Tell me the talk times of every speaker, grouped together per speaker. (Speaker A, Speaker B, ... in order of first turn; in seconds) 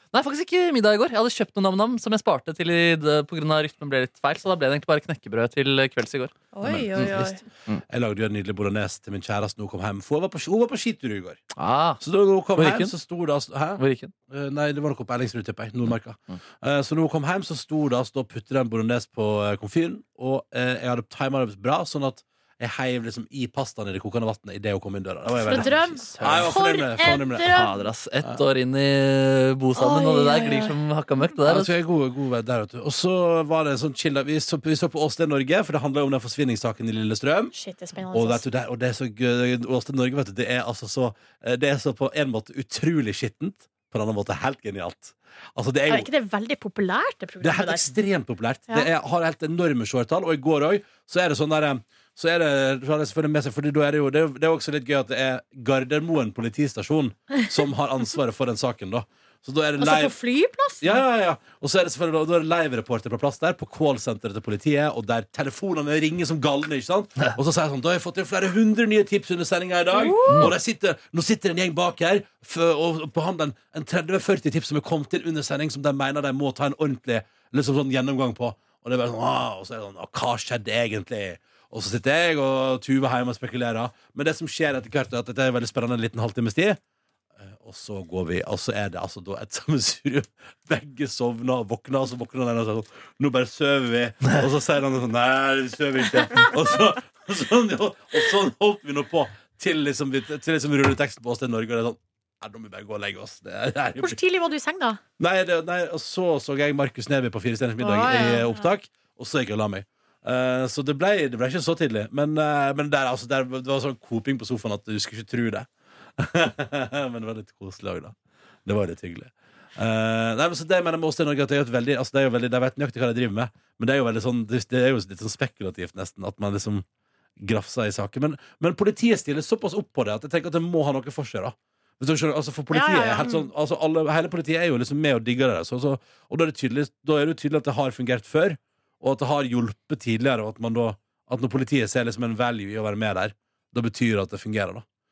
Speaker A: 0.1-6.3, 11.6-12.0, 12.6-12.9, 13.8-14.1, 25.5-26.5, 27.5-31.7, 70.3-70.5
Speaker B: 6.5-7.4, 25.4-27.8, 29.8-30.8, 37.5-38.4, 45.9-47.9, 59.8-61.0, 69.9-70.5, 104.0-105.0, 107.8-108.5, 132.7-133.4
Speaker C: 6.6-11.4, 12.0-27.6, 31.4-37.5, 38.1-46.1, 47.4-60.1, 60.8-86.8, 87.4-104.2, 105.2-126.8, 127.4-144.8